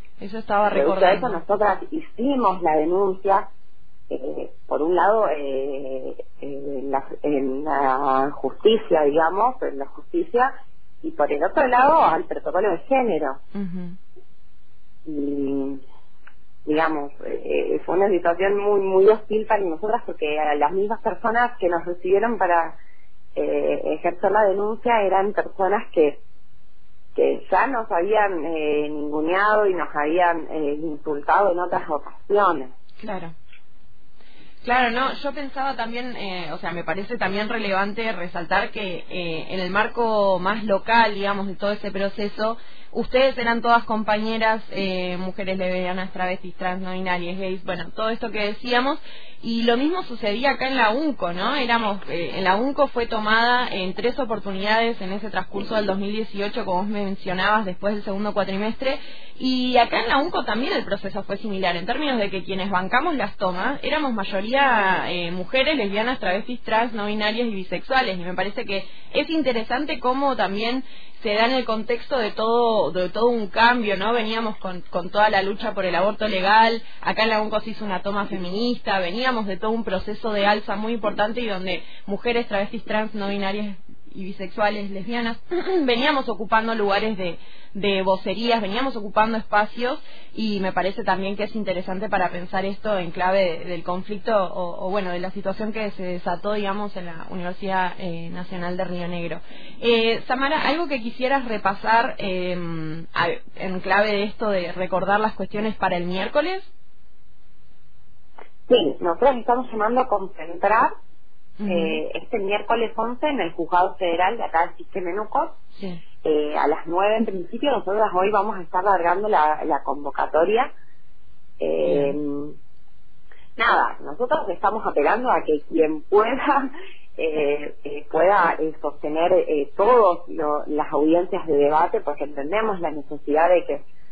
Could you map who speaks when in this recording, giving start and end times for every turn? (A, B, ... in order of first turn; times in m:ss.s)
0:00.2-0:01.4 A
0:00.7-0:03.5 B
0:04.1-0:10.5 B
0:11.0-0:13.4 B
0:13.5-0:14.0 A
0:15.0-0:15.8 B
0:16.6-0:22.8 B
0:23.3-0:26.2 B
0:27.1-0:32.7 B
0:33.0-0:33.3 A
0:34.6-1:46.7 A
1:48.7-1:50.9 B
1:51.6-1:52.0 A
1:51.6-1:55.6 B
1:55.8-1:56.0 A
1:56.2-2:00.7 B
2:01.6-2:02.6 B
2:01.8-2:02.2 A
2:03.6-2:13.8 B